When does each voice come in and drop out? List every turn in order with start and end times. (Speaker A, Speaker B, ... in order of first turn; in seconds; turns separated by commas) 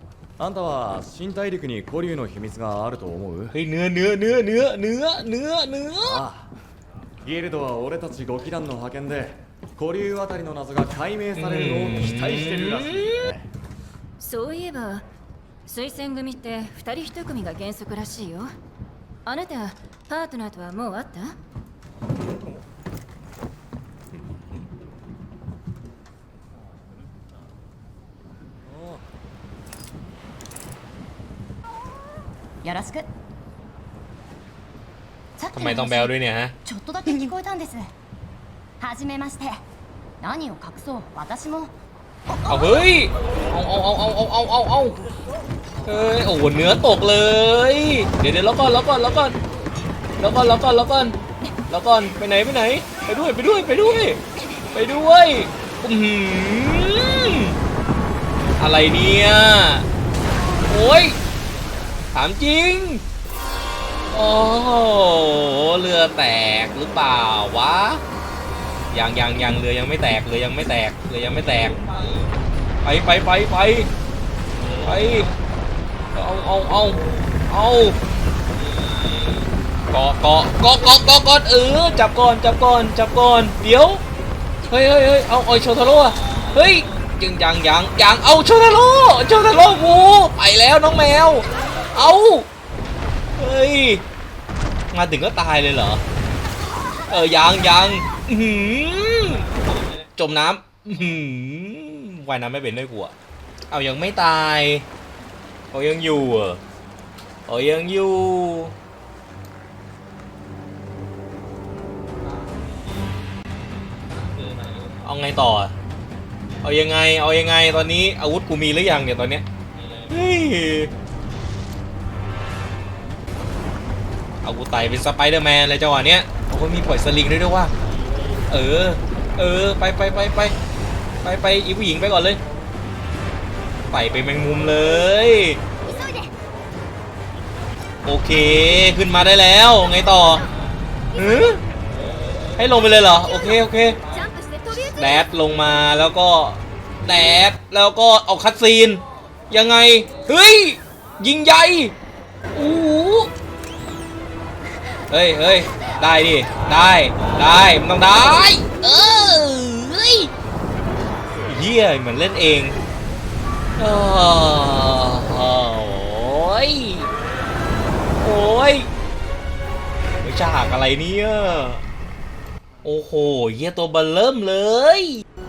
Speaker A: 0.4-3.5, Speaker B: 3.5-6.2, Speaker A: 6.0-6.5, Speaker A: 7.2-13.5, Speaker B: 11.4-13.3, Speaker C: 14.2-15.1, Speaker C: 15.7-18.5, Speaker C: 19.3-21.4, Speaker D: 32.6-33.1, Speaker D: 35.4-36.1, Speaker B: 35.5-36.6, Speaker D: 36.6-37.9, Speaker D: 38.8-39.6, Speaker D: 40.2-41.7, Speaker D: 42.3-42.8, Speaker B: 42.5-45.0, Speaker B: 45.9-49.4, Speaker B: 50.2-51.2, Speaker B: 51.7-54.2, Speaker B: 54.7-57.6, Speaker B: 58.6-59.9, Speaker B: 60.6-61.2, Speaker B: 62.1-63.0, Speaker B: 64.1-68.0, Speaker B: 68.9-71.9, Speaker B: 72.8-73.9, Speaker B: 74.7-75.3, Speaker B: 76.1-78.0, Speaker B: 79.9-84.0, Speaker B: 84.7-92.5, Speaker B: 93.4-94.0, Speaker B: 94.9-96.0, Speaker B: 97.1-99.5, Speaker B: 100.0-103.1, Speaker B: 103.7-104.9, Speaker B: 105.7-106.6, Speaker B: 107.5-108.7, Speaker B: 114.7-115.7, Speaker B: 116.6-119.5, Speaker B: 120.0-120.9, Speaker B: 124.4-127.7, Speaker B: 128.5-130.6, Speaker B: 131.2-132.4, Speaker B: 133.9-135.6, Speaker D: 135.9-136.3, Speaker B: 138.0-140.5, Speaker B: 141.1-141.6, Speaker B: 142.6-144.0, Speaker C: 143.2-145.3, Speaker B: 145.0-151.9, Speaker B: 152.5-153.3, Speaker B: 155.1-160.3, Speaker B: 161.4-162.8, Speaker B: 163.8-167.1, Speaker B: 168.2-168.9, Speaker B: 170.2-171.8, Speaker B: 172.8-175.2